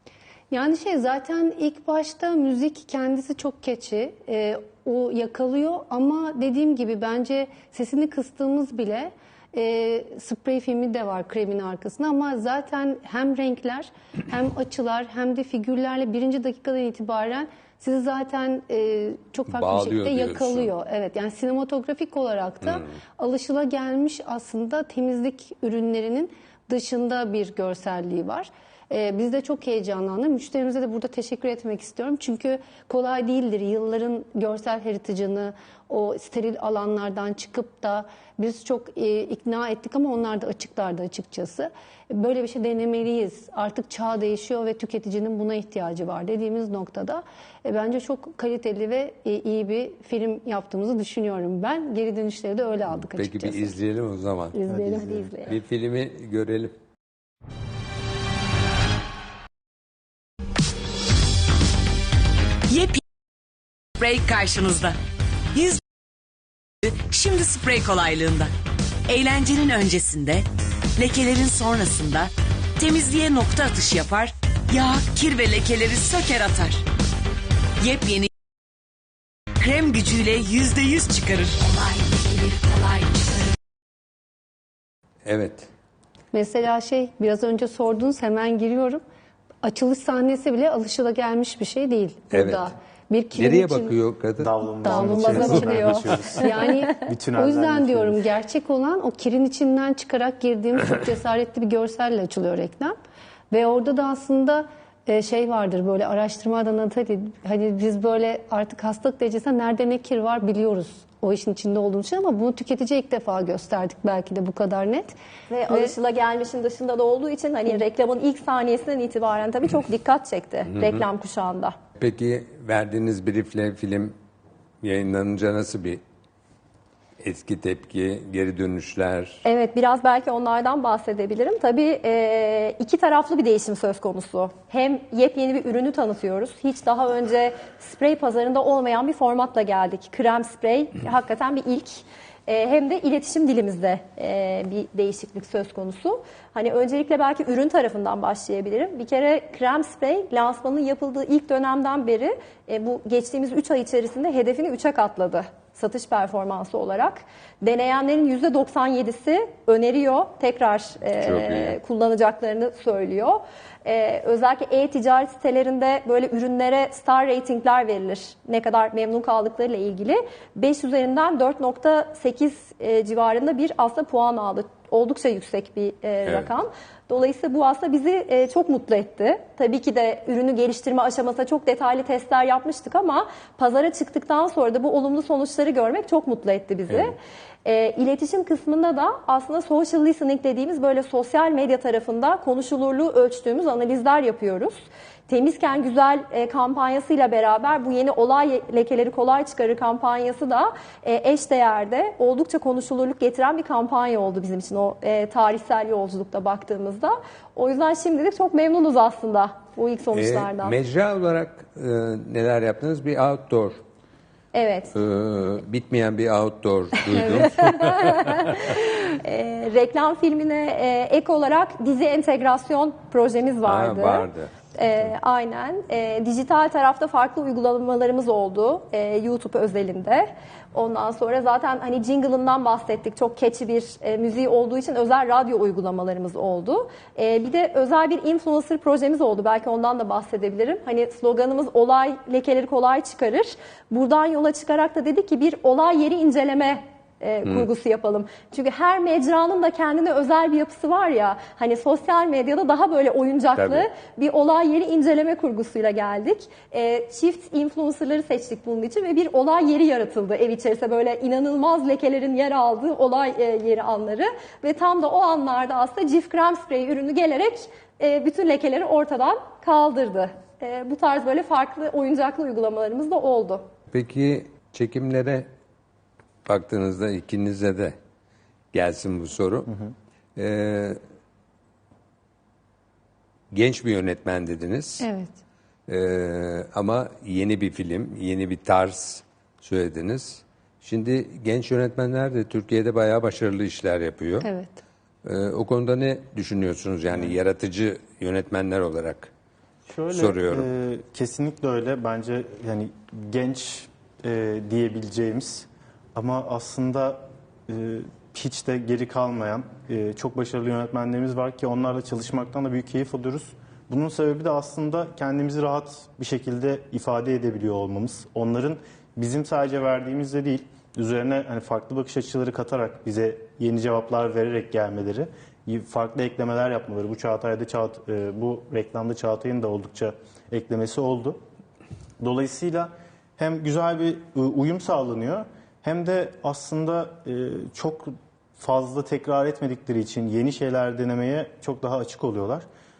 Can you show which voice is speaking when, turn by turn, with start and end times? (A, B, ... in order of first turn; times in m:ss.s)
0:00.5-0:53.7 A
0:19.5-0:20.7 B
0:22.6-0:22.9 B
0:53.1-0:54.6 B
0:54.5-0:55.4 A
0:54.7-0:55.3 C
0:54.7-0:55.5 D
0:55.4-0:56.8 B
1:02.7-1:03.0 E
1:04.0-1:05.0 E
1:05.5-1:05.8 E
1:06.8-1:08.5 E
1:09.1-1:10.4 E
1:11.0-1:16.8 E
1:17.8-1:18.3 E
1:19.6-1:23.5 E
1:25.2-1:25.7 B
1:26.3-1:29.0 A
1:29.6-1:33.9 A
1:32.3-1:32.7 B
1:33.3-1:34.6 B
1:34.4-1:38.2 C
1:34.8-1:42.9 A
1:34.8-1:36.6 D
1:35.1-1:35.8 B
1:43.5-1:55.1 A
1:55.5-2:01.8 D
1:55.7-1:55.9 A
2:00.7-2:01.0 B
2:02.0-2:04.1 B
2:04.8-2:06.0 B
2:07.2-2:09.4 B
2:09.4-3:30.8 D
2:41.2-2:41.8 B
3:30.1-3:33.8 B
3:34.5-3:34.9 D
3:34.9-3:38.7 B
3:37.0-4:33.7 D
3:43.6-3:45.1 B
4:13.6-4:13.9 B
4:33.9-4:35.5 B
4:36.4-4:38.0 B
4:38.7-4:39.7 B
4:40.4-4:41.0 B
4:43.5-4:45.1 B
4:45.0-4:45.4 A
4:45.9-4:54.5 B
4:54.4-4:54.8 A
4:55.2-4:59.3 B
4:59.8-5:31.4 C
5:00.1-5:00.7 B
5:32.2-5:42.6 C